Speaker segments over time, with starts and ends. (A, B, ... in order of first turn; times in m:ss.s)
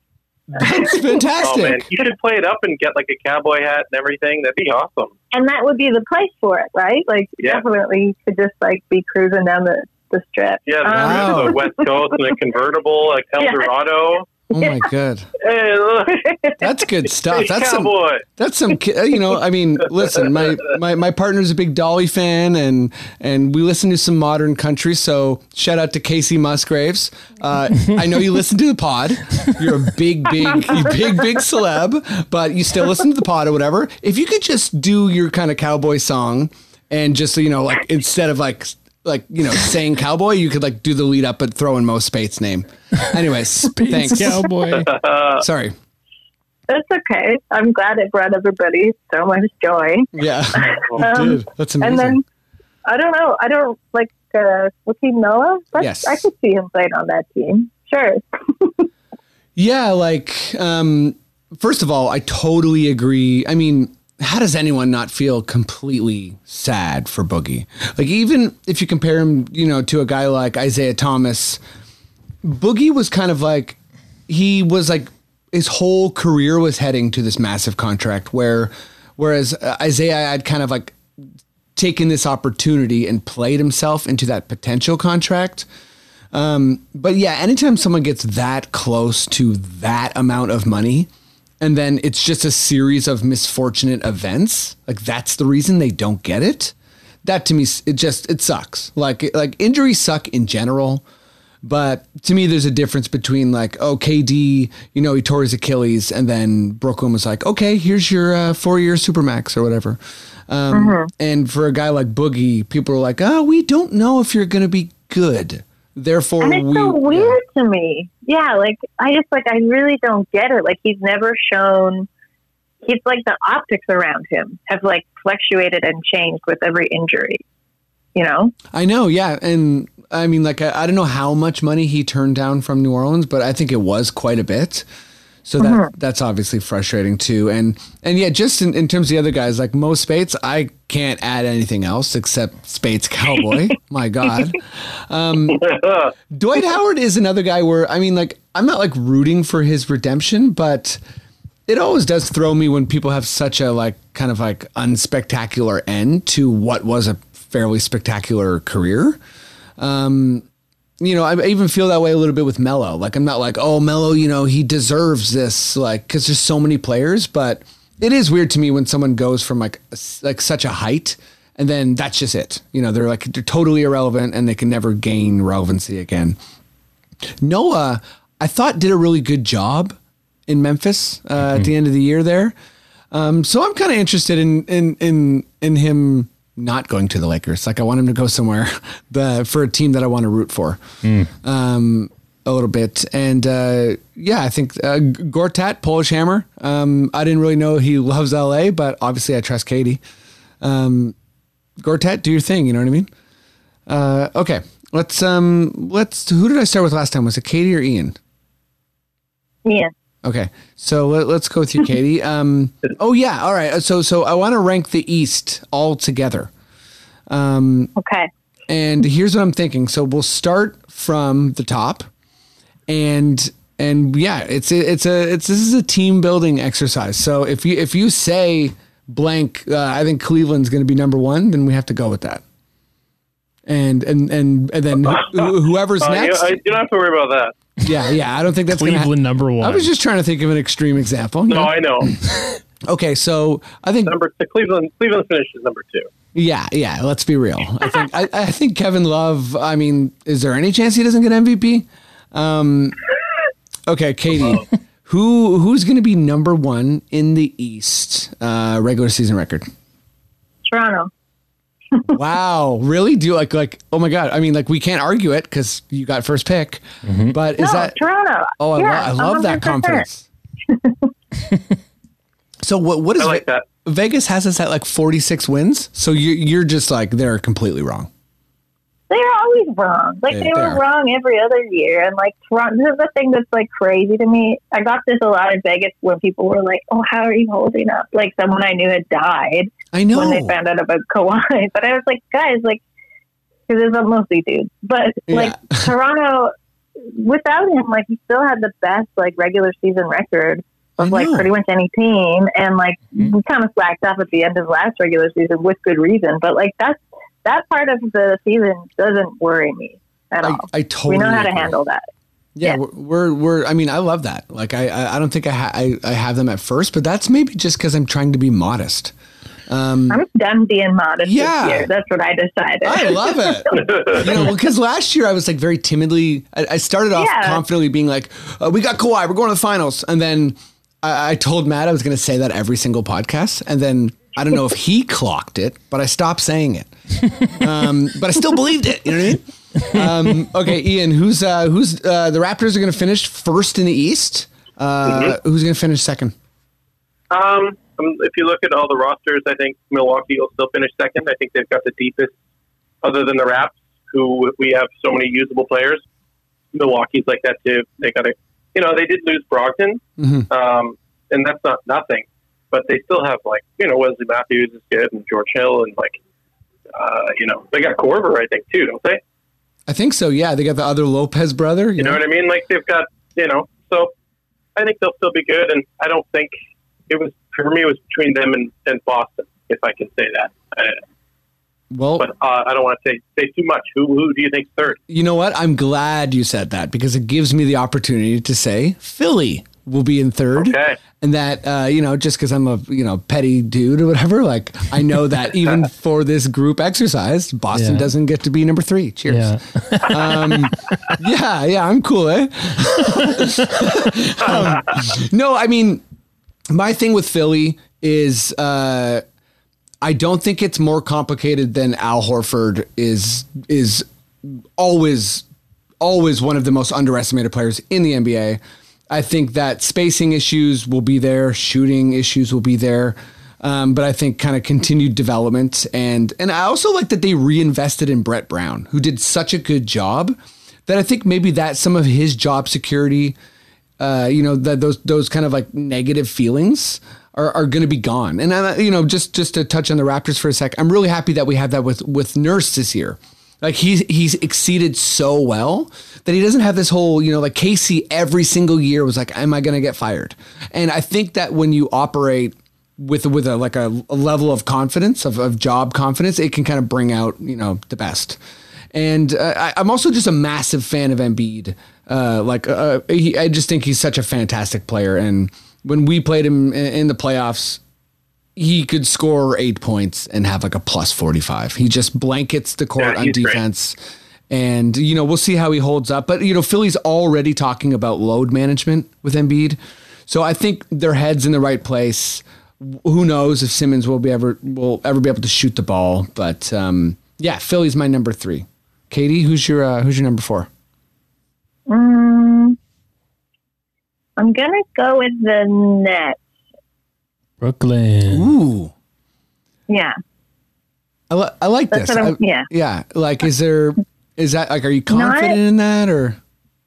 0:00.5-0:01.8 A
0:00.6-0:01.0 B
0:01.4-0:05.1 C
0:05.3-0:12.3 B
0:07.4-0:07.6 C
0:10.7-0:14.3 C
0:10.9-0:11.6 A
0:13.4-0:13.7 B
0:14.5-0:15.3 A
0:14.6-0:14.8 B
0:15.4-0:16.2 C
0:16.1-0:16.6 B
0:16.6-0:44.5 A
0:17.2-0:18.2 C
0:30.6-0:30.9 B
0:43.8-0:44.9 D
0:44.7-0:45.4 C
0:45.4-0:45.8 A
0:46.7-0:52.2 B
0:50.2-0:52.2 A
0:50.8-0:51.1 C
0:52.9-0:58.9 B
0:55.8-0:56.2 A
0:59.6-1:11.6 A
1:12.4-1:13.8 A
1:14.3-1:21.0 A
1:21.8-1:25.7 A
1:26.3-1:31.1 A
1:31.6-1:41.0 A
1:41.6-1:57.4 A
1:50.7-1:51.1 B
1:56.4-2:02.1 B
2:02.8-2:07.4 B
2:08.2-2:08.5 B
2:08.7-2:14.9 A
2:15.4-2:25.7 A
2:15.6-2:15.9 B
2:25.5-2:26.1 C
2:26.3-2:31.0 A
2:31.7-2:39.2 A
2:39.8-2:40.4 A
2:41.0-2:56.4 A
2:57.4-3:00.0 A
3:00.5-3:02.6 A
3:01.4-3:01.7 D
3:03.1-3:10.8 A
3:11.0-3:11.3 D
3:11.4-3:20.0 A
3:20.6-3:21.2 A
3:21.8-3:23.1 A
3:23.9-3:28.2 A
3:29.7-3:29.9 B
3:30.2-3:36.5 A
3:37.3-3:37.9 A
3:38.0-3:38.3 B
3:38.7-3:42.1 A
3:42.9-3:52.4 A
3:53.7-3:56.6 A
3:55.1-3:55.5 C
3:56.0-3:57.5 C
3:57.8-4:02.2 A
3:58.7-3:59.9 D
4:01.5-4:02.1 C
4:02.8-4:04.2 A
4:04.1-4:06.1 C
4:06.3-4:13.0 A
4:13.9-4:19.7 A
4:20.7-4:21.1 B
4:22.1-4:28.0 A
4:27.0-4:27.4 D
4:27.6-4:30.1 B
4:28.6-4:30.3 A
4:30.7-4:31.1 B
4:32.6-4:38.1 A
4:33.2-4:33.6 C
4:39.1-4:52.8 B
4:40.3-4:40.8 A
4:49.9-4:50.6 A
4:53.7-4:56.5 B
4:55.3-4:55.9 A
4:57.0-5:12.0 B
5:01.0-5:01.5 A
5:10.4-5:11.8 A
5:12.6-5:19.1 A
5:19.7-5:20.2 A
5:20.1-5:24.2 B
5:21.2-5:21.9 A
5:22.8-5:46.4 A
5:23.9-5:24.2 C
5:27.2-5:27.6 B
5:39.8-5:40.1 D
5:45.1-5:45.3 C
5:47.3-5:52.3 C
5:53.0-5:56.0 C
5:56.7-6:06.2 C
6:00.2-6:00.5 A
6:07.0-6:09.2 C
6:09.9-6:12.2 A
6:12.0-6:14.1 C
6:14.8-6:16.5 C
6:17.1-6:21.0 C
6:21.9-6:22.3 A
6:22.2-6:25.0 C
6:25.1-6:46.0 A
6:30.6-6:31.0 C
6:37.7-6:38.1 D
6:39.3-6:40.7 D
6:46.7-6:49.2 A
6:50.0-6:55.4 A
6:56.0-7:10.4 A
7:10.9-7:13.4 A
7:14.0-7:38.4 A
7:38.9-7:47.8 A
7:48.6-7:54.0 A
7:53.0-7:53.6 C
7:54.5-8:10.7 A
8:11.9-8:12.8 B
8:14.4-8:16.4 B
8:17.6-8:18.5 D
8:18.3-8:18.9 A
8:19.9-8:20.2 B
8:21.3-8:26.4 A
8:21.9-8:22.7 B
8:25.1-8:25.6 B